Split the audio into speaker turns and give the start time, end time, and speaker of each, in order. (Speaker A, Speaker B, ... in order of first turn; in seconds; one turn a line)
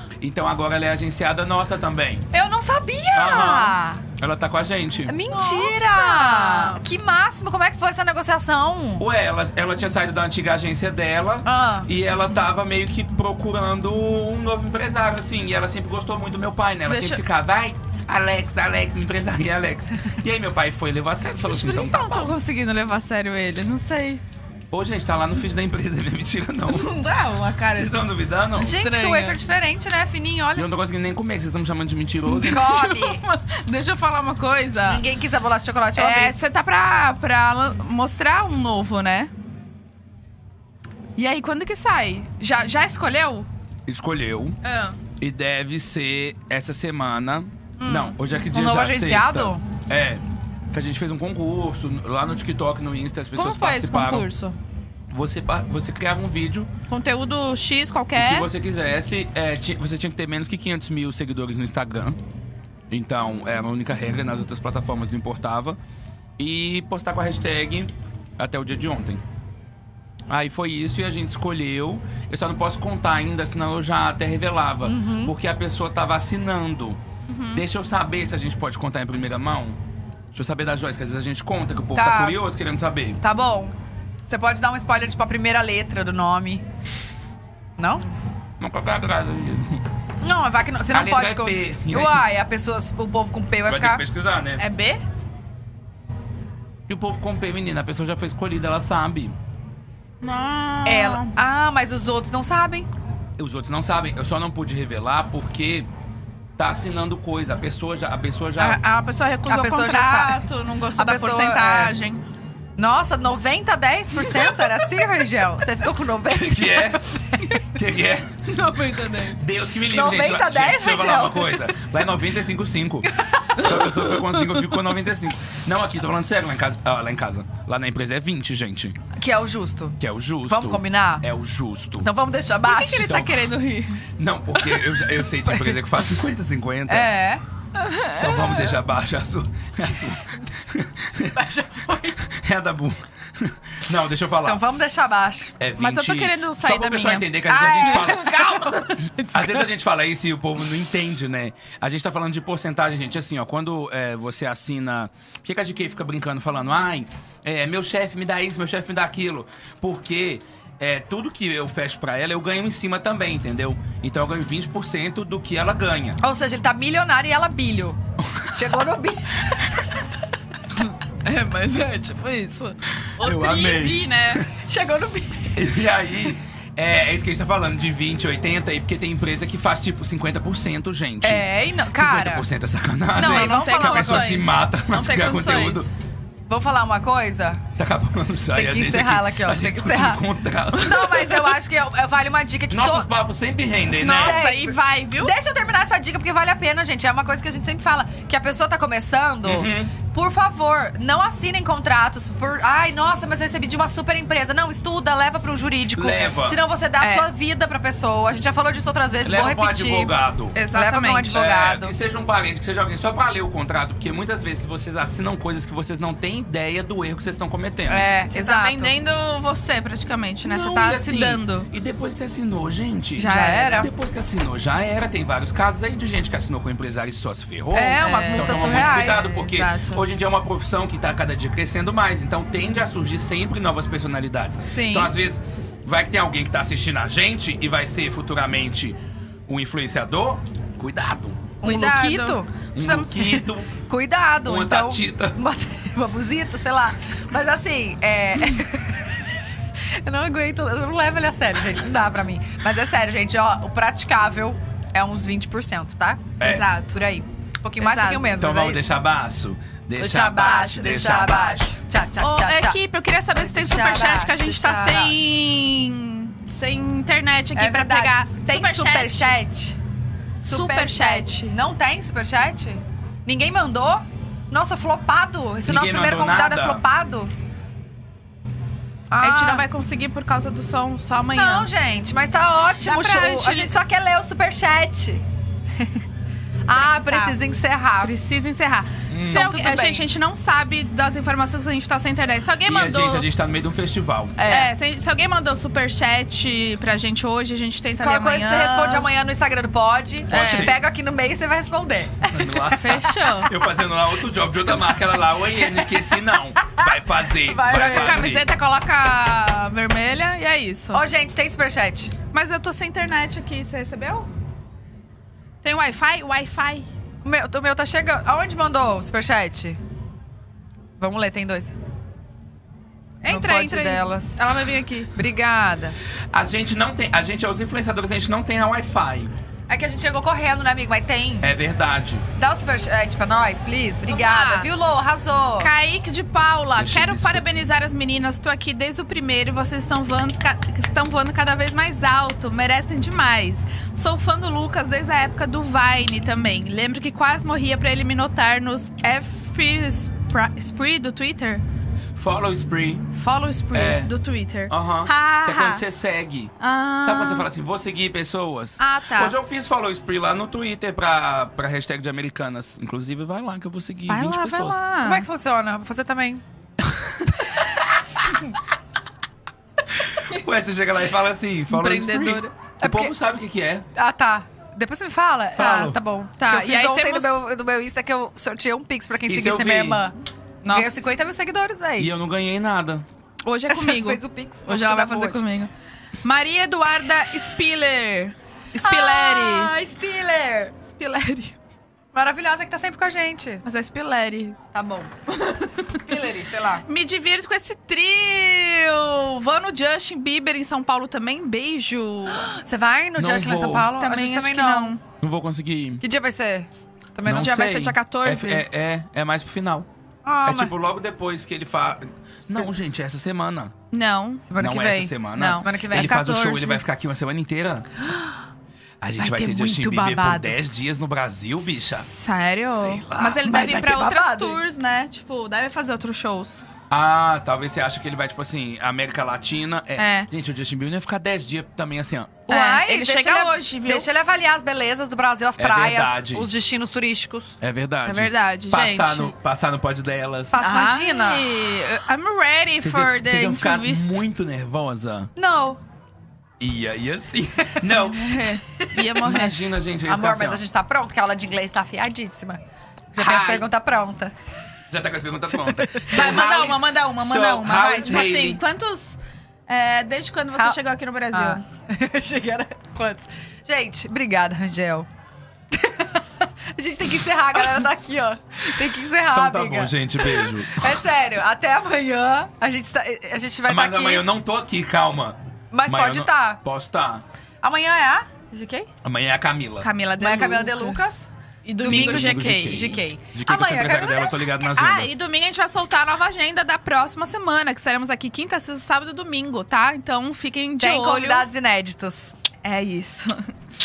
Speaker A: 0.2-2.3
Speaker B: 2.3-4.0
Speaker A: 3.1-5.2
Speaker B: 5.1-9.1
Speaker C: 5.3-6.8
Speaker A: 9.0-22.4
Speaker B: 11.4-11.9
Speaker C: 16.9-17.2
Speaker C: 21.4-24.2
Speaker A: 24.7-27.0
Speaker C: 26.7-27.9
Speaker A: 27.7-28.8
Speaker B: 28.6-30.7
Speaker C: 28.6-29.4
Speaker A: 30.6-32.7
Speaker C: 32.3-35.0
Speaker B: 32.4-33.2
Speaker B: 34.9-36.3
Speaker C: 36.0-39.3
Speaker C: 41.2-43.5
Speaker A: 43.9-44.6
Speaker C: 44.6-45.0
Speaker A: 45.2-54.3
Speaker B: 47.8-49.6
Speaker C: 53.4-54.6
Speaker A: 55.1-56.7
Speaker C: 56.9-58.5
Speaker A: 58.2-62.2
Speaker A: 62.9-65.8
Speaker A: 66.4-69.2
Speaker A: 70.3-77.0
Speaker B: 74.8-75.3
Speaker C: 77.3-77.6
Speaker A: 77.5-79.8
Speaker A: 80.3-83.2
Speaker B: 81.9-82.4
Speaker B: 83.2-83.8
Speaker B: 84.3-86.6
Speaker B: 87.8-88.0
Speaker A: 88.6-89.8
Speaker B: 90.2-94.0
Speaker A: 90.9-92.3
Speaker A: 93.7-94.6
Speaker C: 94.6-95.0
Speaker A: 96.9-99.4
Speaker C: 100.2-101.3
Speaker B: 100.8-102.9
Speaker A: 103.4-105.9
Speaker A: 106.6-108.8
Speaker C: 108.6-112.2
Speaker B: 109.5-110.4
Speaker B: 111.0-111.9
Speaker B: 112.8-117.7
Speaker C: 114.3-114.8
Speaker A: 116.3-117.2
Speaker A: 117.7-118.4
Speaker C: 118.5-119.4
Speaker A: 119.4-129.0
Speaker B: 119.9-121.6
Speaker B: 123.1-123.5
Speaker C: 123.6-124.8
Speaker B: 129.1-131.3
Speaker A: 130.0-132.1
Speaker B: 132.0-133.2
Speaker C: 132.6-134.0
Speaker A: 133.0-133.4
Speaker A: 134.2-137.1
Speaker B: 135.4-135.8
Speaker B: 136.9-137.4
Speaker C: 137.8-138.7
Speaker A: 138.2-141.4
Speaker B: 141.3-142.2
Speaker A: 142.2-144.6
Speaker B: 144.4-145.5
Speaker A: 145.6-148.7
Speaker C: 145.8-149.7
Speaker B: 147.5-148.9
Speaker A: 149.3-166.2
Speaker B: 166.2-168.0
Speaker B: 168.5-169.8
Speaker C: 170.8-174.4
Speaker A: 173.2-174.4
Speaker B: 174.6-175.8
Speaker A: 175.5-185.9
Speaker B: 181.2-182.5
Speaker B: 183.2-184.4
Speaker C: 183.2-185.9
Speaker B: 186.5-187.6
Speaker A: 187.8-191.1
Speaker B: 188.5-190.2
Speaker B: 190.7-193.1
Speaker C: 190.9-191.5
Speaker A: 192.7-194.4
Speaker C: 194.0-195.3
Speaker B: 194.1-210.2
Speaker A: 199.4-199.9
Speaker A: 205.9-206.6
Speaker C: 207.0-207.3
Speaker A: 209.2-210.6
Speaker C: 210.6-211.3
Speaker B: 210.7-211.9
Speaker A: 211.3-218.1
Speaker B: 217.9-218.9
Speaker C: 218.3-221.7
Speaker A: 220.5-241.6
Speaker C: 223.2-223.9
Speaker B: 223.2-223.9
Speaker B: 227.7-229.3
Speaker C: 228.0-230.0
Speaker B: 234.6-235.1
Speaker B: 241.6-242.5
Speaker C: 241.6-243.5
Speaker A: 242.7-243.7
Speaker B: 243.7-249.2
Speaker A: 244.4-245.4
Speaker B: 249.9-258.8
Speaker A: 256.4-256.7
Speaker C: 256.4-257.0
Speaker C: 257.8-258.3
Speaker A: 258.3-261.7
Speaker B: 260.0-262.8
Speaker C: 262.2-269.3
Speaker B: 263.4-265.4
Speaker B: 267.5-269.8
Speaker B: 270.4-277.3
Speaker C: 270.4-271.6
Speaker A: 275.6-276.8
Speaker B: 279.1-279.7
Speaker C: 279.2-281.7
Speaker B: 281.3-285.2
Speaker C: 282.8-283.7
Speaker B: 286.7-288.1
Speaker C: 286.8-287.4
Speaker C: 288.0-293.3
Speaker A: 289.1-289.5
Speaker B: 289.2-290.1
Speaker A: 292.6-294.4
Speaker B: 294.4-294.7
Speaker C: 294.5-299.1
Speaker B: 298.0-303.3
Speaker C: 300.3-300.8
Speaker A: 300.4-300.8
Speaker A: 302.3-308.5
Speaker C: 302.8-303.5
Speaker B: 305.6-308.3
Speaker C: 307.6-311.0
Speaker B: 310.9-312.1
Speaker C: 312.3-314.3
Speaker C: 315.6-316.9
Speaker B: 317.2-319.8
Speaker B: 321.0-321.7
Speaker C: 323.2-325.1
Speaker B: 323.3-324.5
Speaker B: 325.1-326.0
Speaker A: 326.3-329.3
Speaker B: 329.7-331.5
Speaker A: 331.4-332.2
Speaker B: 332.4-335.7
Speaker C: 334.1-334.7
Speaker C: 335.6-351.6
Speaker A: 336.8-337.5
Speaker A: 352.2-353.1
Speaker C: 353.1-355.8
Speaker A: 353.7-354.1
Speaker A: 354.7-364.8
Speaker C: 356.6-357.5
Speaker C: 358.8-359.4
Speaker C: 364.1-365.2
Speaker B: 365.0-366.4
Speaker A: 366.9-367.2
Speaker A: 370.0-373.9
Speaker C: 371.7-372.5
Speaker B: 372.8-373.1
Speaker B: 373.9-380.1
Speaker A: 375.6-376.0
Speaker C: 376.4-377.4
Speaker A: 379.3-380.0
Speaker C: 380.6-381.1
Speaker B: 380.7-382.1
Speaker A: 382.0-383.1
Speaker C: 383.4-385.7
Speaker B: 383.7-385.5
Speaker C: 386.2-389.7
Speaker B: 388.8-390.9
Speaker C: 390.9-391.6
Speaker B: 392.1-393.6
Speaker C: 393.6-394.6
Speaker B: 394.7-395.1
Speaker C: 395.3-396.0
Speaker B: 395.9-396.9
Speaker C: 396.9-402.6
Speaker B: 402.3-405.0
Speaker A: 403.2-403.9
Speaker C: 403.9-405.0
Speaker A: 405.2-406.0
Speaker B: 406.0-407.6
Speaker A: 407.2-409.9
Speaker C: 407.3-408.6
Speaker B: 410.2-410.7
Speaker A: 410.4-413.7
Speaker C: 413.9-414.5
Speaker B: 414.5-416.8
Speaker A: 414.6-417.9
Speaker C: 415.4-415.7
Speaker A: 419.0-422.1
Speaker B: 419.2-420.6
Speaker C: 421.7-426.6
Speaker A: 422.7-423.6
Speaker B: 423.4-424.6
Speaker A: 426.9-432.4
Speaker C: 430.0-430.3
Speaker B: 432.5-437.6
Speaker C: 432.5-434.1
Speaker A: 435.6-436.5
Speaker A: 437.6-440.6
Speaker C: 438.1-439.3
Speaker B: 440.5-441.4
Speaker C: 440.6-444.2
Speaker A: 442.8-445.3
Speaker B: 445.4-445.8
Speaker A: 446.6-448.5
Speaker C: 448.2-449.6
Speaker B: 448.9-449.1
Speaker A: 449.2-450.6
Speaker B: 450.1-452.6
Speaker B: 453.1-454.3
Speaker A: 453.2-453.7
Speaker A: 454.9-458.6
Speaker B: 455.6-456.3
Speaker C: 456.0-459.2
Speaker C: 459.7-461.6
Speaker B: 461.3-465.1
Speaker B: 465.7-474.3
Speaker A: 469.3-471.0
Speaker A: 473.7-477.2
Speaker B: 475.7-476.6
Speaker B: 477.6-478.9
Speaker A: 479.0-479.9
Speaker C: 479.8-481.1
Speaker B: 480.2-481.3
Speaker C: 481.6-491.5
Speaker B: 481.8-483.3
Speaker A: 481.8-485.1
Speaker B: 490.8-492.4
Speaker C: 492.6-493.5